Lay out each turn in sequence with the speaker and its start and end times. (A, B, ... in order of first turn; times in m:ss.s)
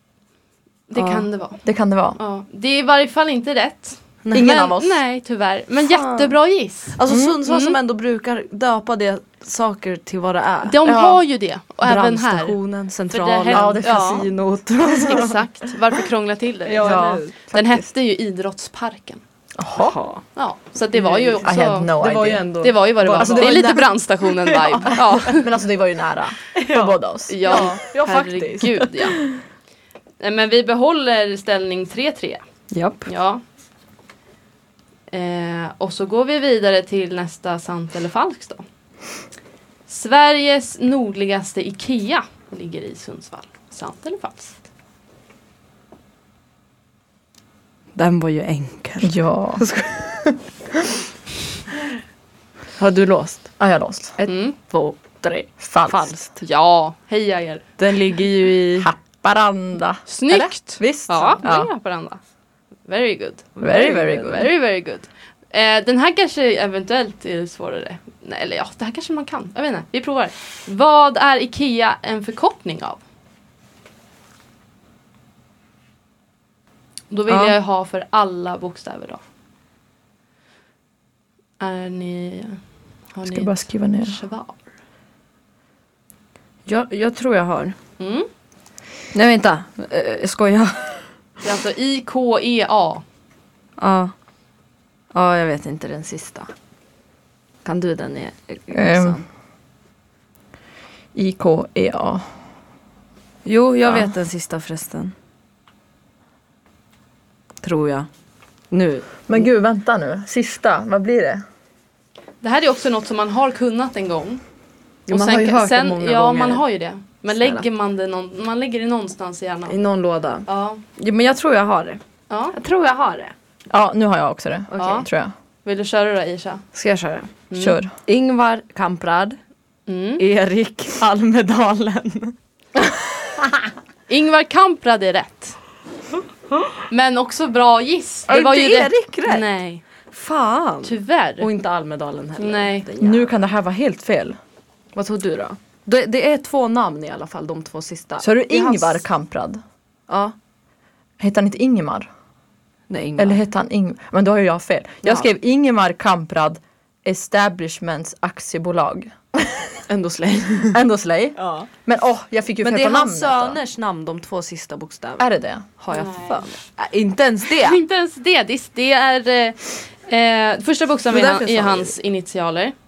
0:00.9-0:01.6 A
0:00.9-0:01.2 B
0:01.6-0:02.2 C
0:02.2-0:07.7 A
0:04.2-0:04.6 B
0:04.3-0:05.0 C
0:05.8-0:06.4 B
0:06.9-0:10.8 B
0:07.1-0:07.4 C
0:10.6-0:12.6 A
0:10.8-0:11.2 C
0:11.8-0:15.4 B
0:13.1-0:14.3 A
0:13.5-0:14.2 C
0:14.8-0:19.2 A
0:16.6-0:17.4 B
0:16.8-0:17.8 C
0:19.6-0:20.0 C
0:19.8-0:20.2 B
0:20.3-0:21.9 A
0:21.0-0:21.4 B
0:21.4-0:22.5 C
0:21.9-0:23.9 B
0:22.6-0:25.5 A
0:23.0-0:23.8 C
0:24.5-0:25.0 B
0:24.8-0:27.8 C
0:26.5-0:29.1 B
0:27.3-0:29.2 A
0:30.2-0:32.4 A
0:32.7-0:33.1 B
0:33.0-0:33.4 A
0:35.1-0:38.6 A
0:39.9-0:44.6 A
0:48.0-0:50.4 B
0:49.0-0:49.6 C
0:52.8-0:53.5 B
0:53.6-0:54.2 C
0:54.2-0:56.3 B
0:54.2-0:54.5 A
0:55.6-0:56.1 C
0:56.4-0:57.6 A
0:57.8-0:58.9 B
0:58.8-1:01.7 C
1:00.1-1:02.2 A
1:02.8-1:13.0 A
1:03.6-1:04.5 C
1:03.6-1:04.3 B
1:17.1-1:19.2 A
1:17.3-1:17.6 B
1:21.6-1:22.6 A
1:23.1-1:24.6 A
1:23.2-1:24.2 C
1:26.7-1:27.8 B
1:28.0-1:28.3 A
1:29.1-1:31.0 B
1:31.4-1:33.0 A
1:33.8-1:34.1 B
1:35.1-1:36.5 B
1:37.6-1:39.2 B
1:38.7-1:39.2 C
1:41.1-1:42.2 C
1:43.4-1:45.1 B
1:47.6-1:48.1 B
1:48.7-1:49.4 B
1:49.3-1:51.4 C
1:52.4-1:54.4 A
1:55.1-1:56.6 B
1:55.1-1:59.8 A
1:57.3-1:57.6 B
1:59.7-2:02.0 B
2:00.5-2:00.8 A
2:02.3-2:02.6 A
2:02.5-2:03.3 B
2:03.7-2:05.3 C
2:04.7-2:05.0 B
2:04.8-2:05.1 A
2:05.6-2:06.6 A
2:06.7-2:07.4 B
2:07.5-2:07.8 A
2:07.6-2:07.9 C
2:08.0-2:09.4 B
2:09.9-2:10.2 A
2:10.2-2:12.3 B
2:14.1-2:15.6 A
2:16.9-2:19.8 A
2:18.3-2:19.5 B
2:20.1-2:23.3 B
2:20.8-2:21.5 A
2:22.4-2:22.9 A
2:23.0-2:24.4 C
2:24.9-2:28.9 B
2:28.2-2:29.6 C
2:30.1-2:30.3 B
2:31.2-2:32.1 C
2:32.9-2:33.4 B
2:33.2-2:39.7 C
2:39.9-2:40.8 B
2:40.7-2:43.6 C
2:41.4-2:41.7 B
2:42.6-2:45.3 B
2:45.2-2:45.6 C
2:45.8-2:47.8 B
2:45.9-2:46.6 A
2:47.6-2:52.7 A
2:51.1-2:52.0 B